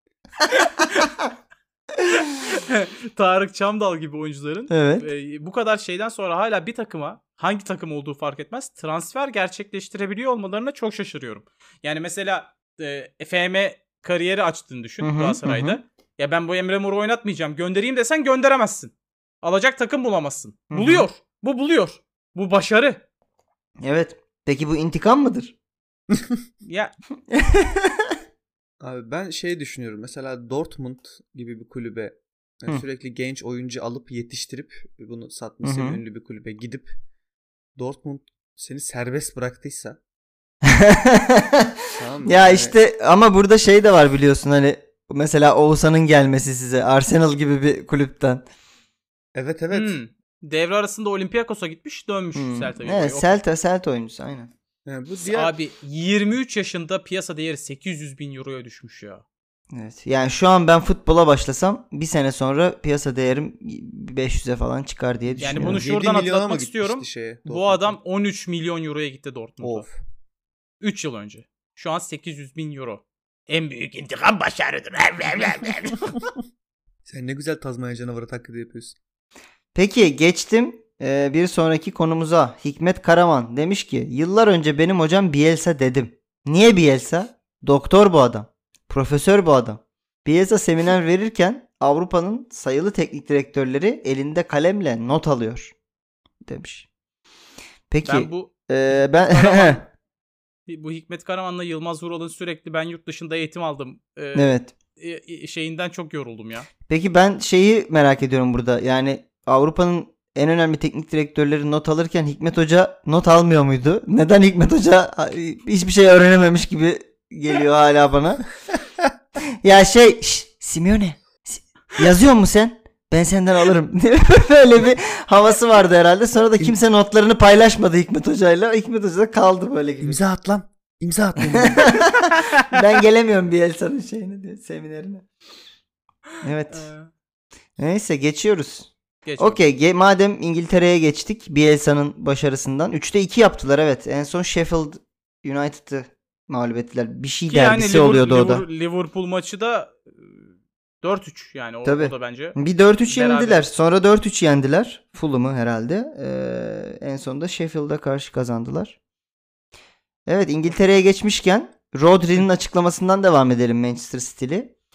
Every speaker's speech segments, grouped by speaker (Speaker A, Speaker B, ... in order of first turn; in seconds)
Speaker A: 0.4-1.3, 4.7-5.1, 15.0-15.8, 20.7-21.1, 23.8-25.5, 27.3-28.1, 35.6-36.0, 40.6-48.4, 52.3-54.5, 59.7-65.8, 79.7-95.7, 96.4-96.9, 97.9-99.8, 104.3-104.7, 106.9-118.4, 119.6-130.2, 131.5-135.2, 136.4-136.9, 137.8-148.6, 151.8-158.9, 160.2-164.7
Speaker B: 0.5-1.1, 2.1-23.0, 26.6-26.9, 49.7-53.4, 55.2-59.2, 65.4-69.8, 70.8-76.2, 98.0-98.5, 99.2-99.8, 100.7-106.7, 132.2-132.8, 136.7-137.1, 139.2-139.6, 147.5-150.0, 151.0-152.6, 153.1-153.6
Speaker C: 28.8-36.9, 37.8-40.0, 41.9-42.7, 49.3-50.0, 54.9-55.5, 65.3-68.0, 69.6-69.9, 77.1-79.0, 130.0-132.0